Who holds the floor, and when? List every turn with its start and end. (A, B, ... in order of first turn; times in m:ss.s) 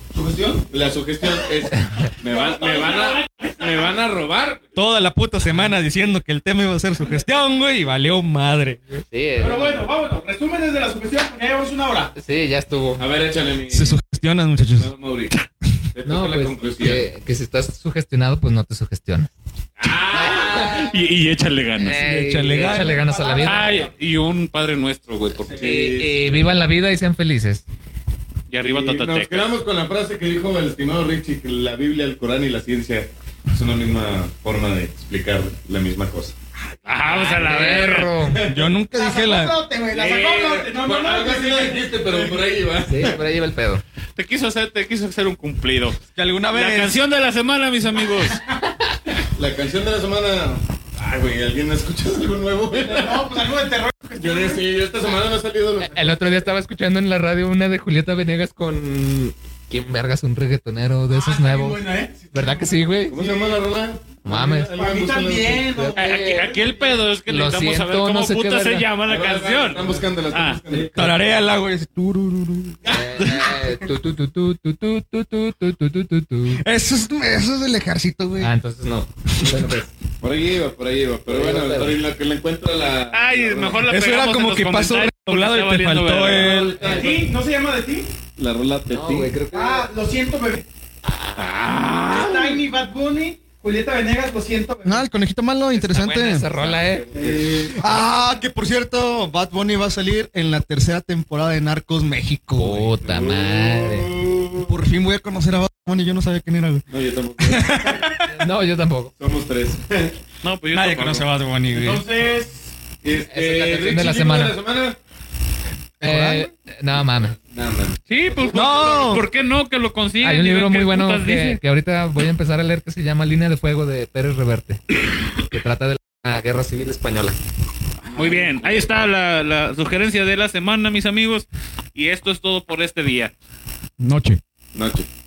0:00.1-0:00.7 A
0:00.7-0:04.7 B
0:02.2-0:04.0 A
0:04.8-0:09.0 C
0:09.0-0:09.9 D
0:09.4-0:12.1 A
0:12.2-0:13.1 D
0:13.0-0:14.0 B
0:13.7-0:14.9 C
0:14.7-0:15.3 B
0:15.9-0:17.1 B
0:16.0-0:19.3 D
0:19.8-0:20.9 B
0:20.1-0:20.9 D
0:20.2-0:22.0 E
0:21.8-0:23.8 D
0:21.9-0:23.1 C
0:22.6-0:23.9 A
0:23.4-0:25.7 E
0:25.5-0:26.5 B
0:25.5-0:27.6 D
0:28.5-0:29.5 E
0:28.6-0:36.4 B
0:36.9-0:38.1 E
0:37.0-0:38.5 D
0:38.2-0:38.7 B
0:38.4-0:39.6 C
0:39.0-0:42.5 A
0:39.9-0:43.2 B
0:42.8-0:43.8 D
0:44.2-0:46.0 E
0:46.2-0:47.0 C
0:46.5-0:48.4 E
0:49.4-0:53.3 B
0:52.7-0:54.7 A
0:54.2-0:56.2 B
0:55.8-1:01.8 D
1:01.1-1:03.3 A
1:02.3-1:03.2 D
1:03.1-1:05.7 B
1:04.2-1:04.8 D
1:04.7-1:07.0 A
1:05.7-1:06.5 D
1:06.0-1:10.6 E
1:07.3-1:08.9 D
1:09.0-1:11.0 B
1:10.7-1:11.0 A
1:11.0-1:13.0 C
1:12.9-1:16.6 D
1:13.2-1:13.5 E
1:16.5-1:18.6 C
1:18.4-1:19.9 D
1:20.2-1:23.9 B
1:21.3-1:22.0 D
1:23.1-1:27.0 E
1:23.9-1:27.0 C
1:26.4-1:27.3 B
1:26.9-1:28.1 A
1:28.4-1:29.3 B
1:28.9-1:29.9 D
1:29.5-1:30.6 A
1:31.4-1:32.5 B
1:32.1-1:35.0 A
1:34.9-1:36.5 C
1:35.7-1:37.1 D
1:36.5-1:37.8 B
1:37.1-1:37.8 A
1:37.7-1:43.0 C
1:42.6-1:44.1 D
1:43.0-1:44.8 B
1:44.7-1:46.8 C
1:46.9-1:48.1 B
1:47.4-1:48.3 C
1:48.2-1:49.1 D
1:49.2-1:50.2 B
1:50.4-1:51.3 E
1:50.7-1:52.0 C
1:51.8-1:52.7 A
1:53.0-1:55.0 B
1:53.3-1:54.6 D
1:56.0-1:56.5 C
1:56.0-1:57.4 D
1:57.0-1:59.2 B
1:58.1-2:01.6 E
1:58.5-1:59.2 C
2:00.2-2:07.4 D
2:08.0-2:09.1 B
2:08.2-2:13.3 E
2:14.0-2:14.4 C
2:14.8-2:15.1 B